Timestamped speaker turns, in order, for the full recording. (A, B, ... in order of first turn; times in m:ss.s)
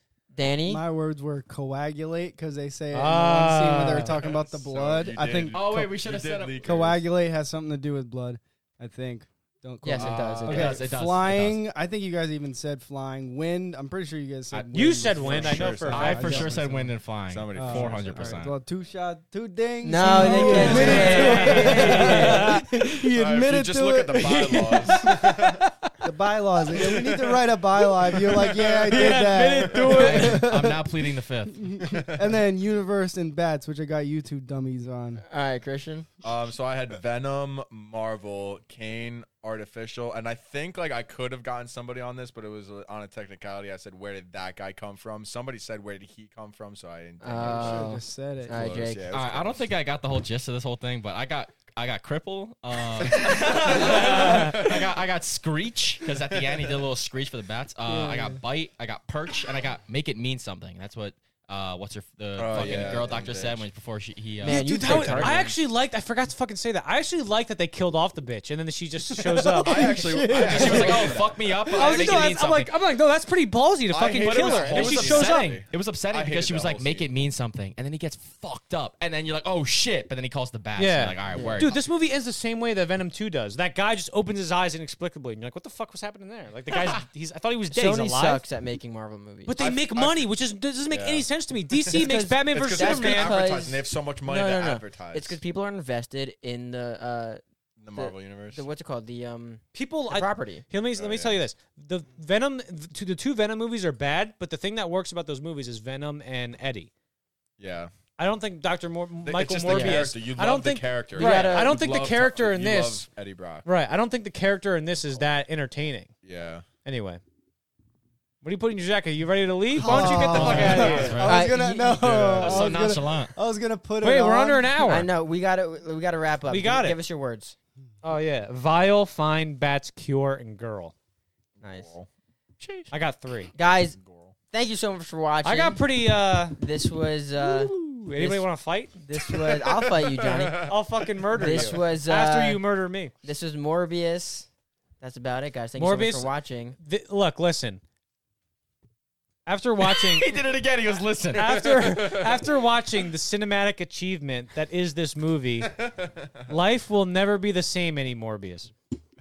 0:00.3-0:00.8 A
0:00.6-0:05.9 B
0:02.9-0:04.1 C
0:04.0-0:07.0 D
0:05.5-0:06.8 E
0:06.6-0:16.9 B
0:09.8-0:10.8 A
0:10.0-0:10.4 D
0:10.2-0:11.6 E
0:14.5-0:16.5 D
0:14.7-0:16.5 C
0:15.4-0:18.5 E
0:17.3-0:18.4 D
0:17.5-0:25.3 B
0:19.8-0:22.6 A
0:20.0-0:22.6 C
0:20.7-0:25.6 D
0:20.8-0:22.3 E
0:26.0-0:35.2 B
0:26.8-0:27.3 D
0:28.1-0:30.2 D
0:28.9-0:31.7 E
0:28.9-0:30.4 C
0:31.8-0:32.3 D
0:35.2-0:36.1 A
0:36.2-0:49.7 D
0:47.2-0:49.1 A
0:47.4-0:48.8 B
0:49.1-1:04.6 E
0:53.0-0:54.9 D
0:53.7-0:54.6 C
0:56.3-0:56.8 D
0:57.8-0:58.4 B
1:02.4-1:03.6 D
1:04.4-1:05.6 A
1:04.4-1:10.0 C
1:04.7-1:05.4 B
1:09.2-1:11.2 B
1:09.6-1:12.3 D
1:10.3-1:12.7 E
1:11.7-1:15.6 C
1:13.9-1:17.2 D
1:14.0-1:21.8 E
1:20.8-1:28.4 C
1:21.3-1:21.7 A
1:26.7-1:27.0 E
1:27.7-1:29.6 A
1:29.4-1:33.4 C
1:29.6-1:30.2 D
1:30.9-1:35.4 D
1:31.9-1:37.4 A
1:37.8-1:38.7 D
1:37.9-1:40.6 A
1:39.7-1:46.9 C
1:40.9-1:41.4 D
1:47.6-1:47.9 D
1:48.2-1:53.1 C
1:49.2-1:53.7 D
1:49.7-1:50.2 A
1:51.1-1:51.8 A
1:53.6-1:56.1 C
1:56.2-1:56.6 D
1:56.8-1:57.2 C
1:58.4-2:01.2 C
1:59.8-2:04.9 B
1:59.8-2:02.8 A
2:00.3-2:03.4 E
2:02.0-2:02.6 D
2:04.0-2:05.1 C
2:04.8-2:07.6 A
2:06.5-2:07.0 C
2:08.0-2:10.9 C
2:11.6-2:12.1 D
2:11.6-2:11.9 A
2:12.6-2:12.9 D
2:12.9-2:13.5 C
2:13.5-2:14.0 A
2:13.9-2:14.3 D
2:14.5-2:15.8 A
2:15.4-2:16.6 C
2:16.6-2:18.4 A
2:17.4-2:19.0 C
2:19.0-2:20.7 A
2:19.2-2:21.8 D
2:20.6-2:23.1 C
2:21.3-2:22.6 A
2:23.2-2:24.5 A
2:25.0-2:26.8 A
2:25.8-2:27.8 C
2:29.4-2:30.3 C
2:29.8-2:31.7 E
2:31.3-2:35.8 C
2:31.7-2:32.4 D
2:35.7-2:36.3 D
2:36.5-2:38.7 C